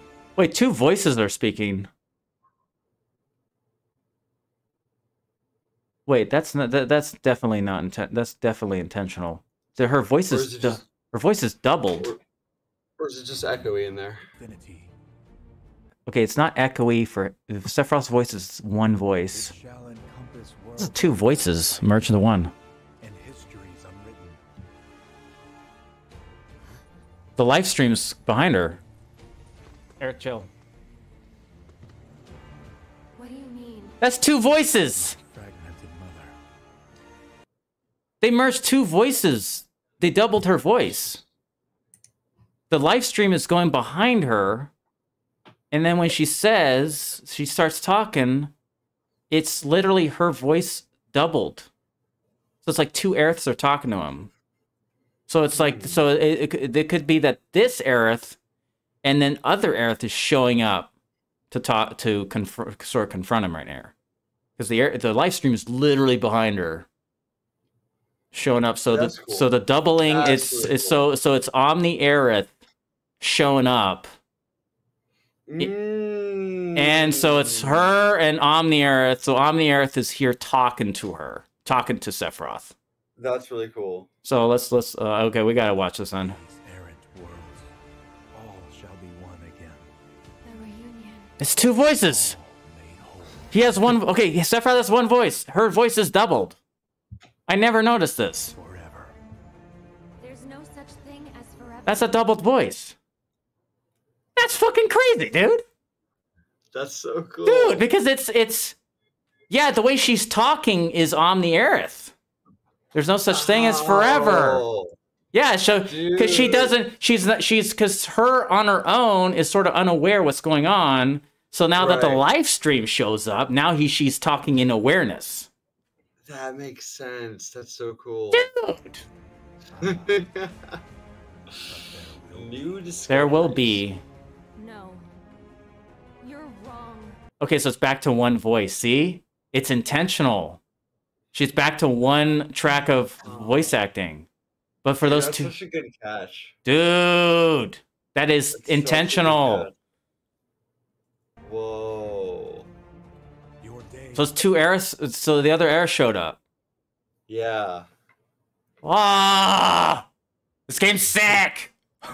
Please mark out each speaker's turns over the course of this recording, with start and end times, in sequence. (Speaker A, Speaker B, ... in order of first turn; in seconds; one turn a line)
Speaker A: 0.3-1.9
Speaker A: 6.0-12.1
Speaker B: 10.3-10.8
Speaker B: 13.0-14.2
Speaker C: 14.4-14.9
Speaker A: 16.1-19.5
Speaker C: 19.3-22.2
Speaker A: 20.8-22.5
Speaker C: 23.0-24.4
Speaker A: 27.4-28.8
Speaker A: 30.0-30.5
Speaker D: 33.1-34.0
Speaker A: 34.0-35.2
Speaker C: 34.9-36.4
Speaker A: 38.2-41.2
Speaker A: 42.7-44.7
Speaker A: 45.7-48.5
Speaker A: 49.3-51.7
Speaker A: 52.6-54.3
Speaker A: 55.3-58.4
Speaker B: 55.5-56.0
Speaker A: 59.0-60.9
Speaker A: 61.5-63.9
Speaker A: 64.6-66.9
Speaker A: 68.3-72.5
Speaker B: 68.9-69.5
Speaker B: 70.0-71.0
Speaker A: 73.2-74.0
Speaker B: 75.5-78.0
Speaker A: 76.8-82.7
Speaker B: 83.2-84.1
Speaker A: 84.2-86.4
Speaker C: 86.2-87.7
Speaker C: 88.3-89.9
Speaker D: 90.4-91.3
Speaker A: 91.4-92.4
Speaker C: 92.0-93.6
Speaker A: 93.5-96.6
Speaker A: 97.5-98.5
Speaker C: 98.5-99.2
Speaker D: 100.2-102.2
Speaker A: 101.8-103.0
Speaker A: 104.3-105.6
Speaker B: 106.7-107.8
Speaker A: 107.4-108.8
Speaker A: 109.5-112.1
Speaker A: 112.9-114.6
Speaker B: 113.3-115.0
Speaker A: 115.3-125.5
Speaker B: 115.8-116.8
Speaker B: 121.8-122.2
Speaker B: 126.2-128.4
Speaker A: 128.3-129.0
Speaker C: 129.6-130.3
Speaker B: 129.8-130.7
Speaker C: 131.5-132.9
Speaker B: 132.3-133.8
Speaker A: 133.1-134.0
Speaker D: 134.6-135.0
Speaker D: 136.2-137.2
Speaker A: 137.4-140.6
Speaker A: 141.3-144.3
Speaker B: 143.2-143.8
Speaker A: 144.8-145.5
Speaker B: 145.0-146.6
Speaker A: 146.6-149.7
Speaker B: 148.5-149.7
Speaker B: 151.4-152.7
Speaker C: 153.6-154.3
Speaker A: 154.1-156.4
Speaker B: 157.3-157.9
Speaker A: 158.8-160.1
Speaker A: 160.7-161.7